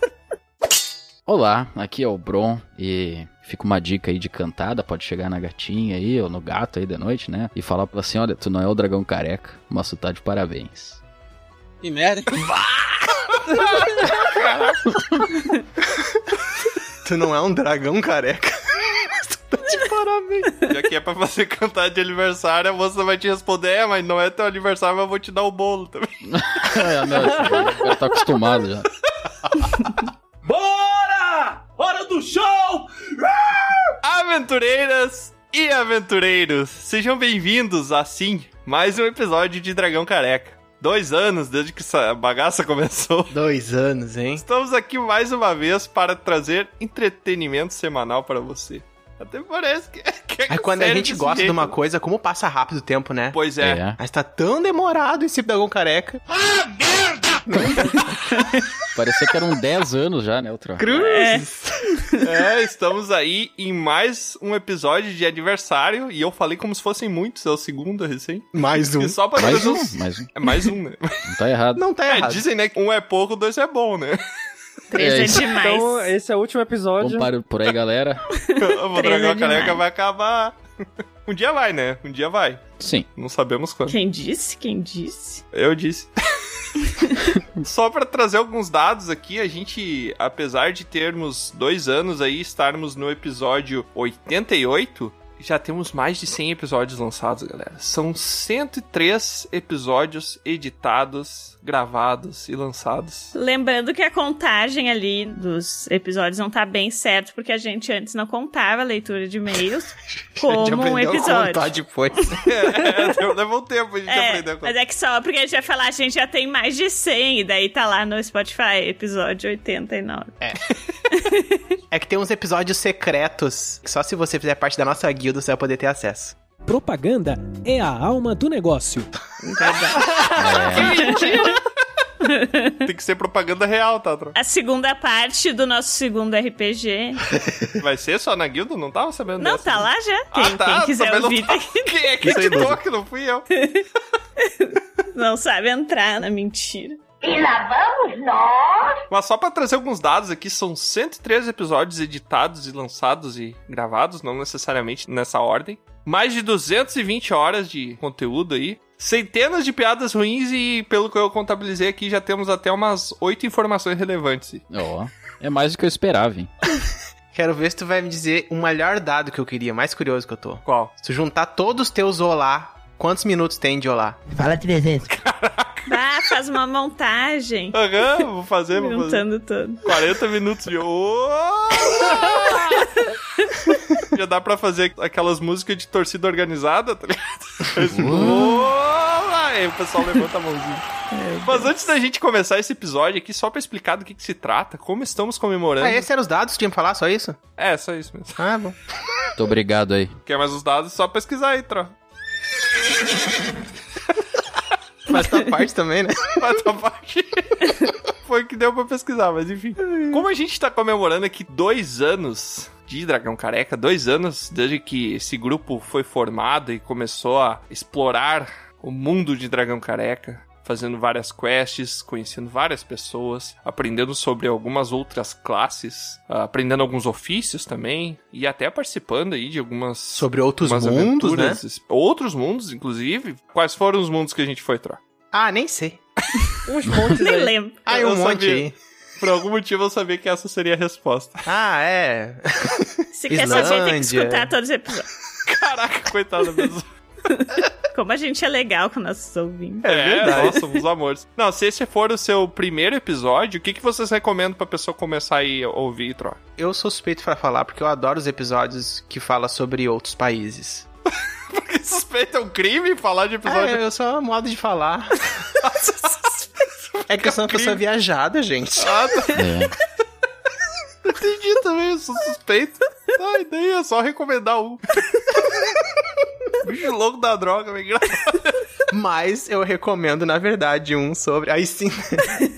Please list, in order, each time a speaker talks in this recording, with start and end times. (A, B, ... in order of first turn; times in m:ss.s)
0:01.3-0:11.0 A
0:14.3-0:14.6 B
0:17.0-0:20.5 C
0:20.6-0:27.2 B
0:26.3-0:28.9 A
0:30.5-0:32.9 D
0:34.0-0:43.3 B
0:43.3-0:44.4 C
0:44.4-0:51.7 B
0:50.5-0:53.4 C
0:53.3-0:53.8 B
0:53.6-0:54.0 A
0:54.0-0:56.2 C
0:57.5-0:58.0 C
0:58.4-0:58.6 E
0:59.0-1:00.9 A
1:00.8-1:01.8 C
1:00.9-1:02.2 E
1:02.2-1:11.2 B
1:08.5-1:09.6 C
1:09.4-1:10.3 A
1:11.3-1:11.8 A
1:11.8-1:12.5 C
1:12.1-1:14.2 B
1:14.9-1:16.1 E
1:15.0-1:15.5 A
1:15.5-1:17.3 F
1:17.0-1:18.2 A
1:18.4-1:19.8 E
1:18.6-1:20.6 B
1:21.3-1:24.0 B
1:22.8-1:23.1 A
1:23.9-1:25.4 E
1:25.5-1:26.1 B
1:26.9-1:27.1 E
1:27.6-1:43.3 B
1:43.3-1:51.7 E
1:50.4-1:52.4 C
1:52.4-1:52.9 E
1:52.4-1:54.7 B
1:54.1-2:00.4 E
2:01.1-2:01.6 E
2:01.9-2:06.4 C
2:06.7-2:09.1 G
2:09.4-2:10.1 E
2:10.0-2:11.6 B
2:10.4-2:11.1 A
2:10.8-2:11.5 E
2:12.2-2:12.8 E
2:12.8-2:14.4 B
2:14.4-2:17.2 E
2:17.8-2:23.5 B
2:19.4-2:21.9 E
2:22.2-2:22.8 C
2:23.6-2:23.8 E
2:24.4-2:27.0 E
2:27.2-2:29.0 H
2:29.1-2:44.6 B
2:44.7-2:46.5 A
2:47.3-2:54.2 C
2:50.7-2:50.9 B
2:54.3-2:55.1 H
2:55.1-2:55.9 B
2:55.9-2:58.2 E
2:57.7-2:59.2 B
2:58.8-2:59.8 E
2:59.8-3:02.9 B
3:04.0-3:10.8 B
3:07.9-3:08.5 A
3:11.1-3:11.7 E
3:11.4-3:16.0 B
3:15.8-3:17.4 C
3:17.6-3:18.4 B
3:18.4-3:18.8 C
3:19.4-3:20.1 A
3:20.3-3:21.9 B
3:25.1-3:26.5 C
3:26.4-3:27.7 B
3:28.2-3:55.0 B
3:29.9-3:30.2 C
3:50.2-3:51.6 C
3:55.3-3:56.0 C
3:56.7-3:57.5 F
3:57.2-3:57.8 E
3:57.9-3:58.8 C
3:57.9-3:58.7 B
3:59.2-4:01.5 B
4:01.5-4:04.5 C
4:03.2-4:05.1 E
4:03.5-4:03.7 B
4:05.5-4:06.9 B
4:07.3-4:10.6 E
4:09.8-4:10.6 C
4:09.8-4:16.4 B
4:16.6-4:20.9 C
4:21.5-4:23.8 B
4:23.4-4:25.5 C
4:25.6-4:26.3 B
4:26.9-4:27.8 B
4:27.1-4:29.0 C
4:28.8-4:29.4 B
4:29.3-4:29.7 A
4:31.0-4:35.0 B
4:36.6-4:38.6 B
4:38.9-4:42.4 C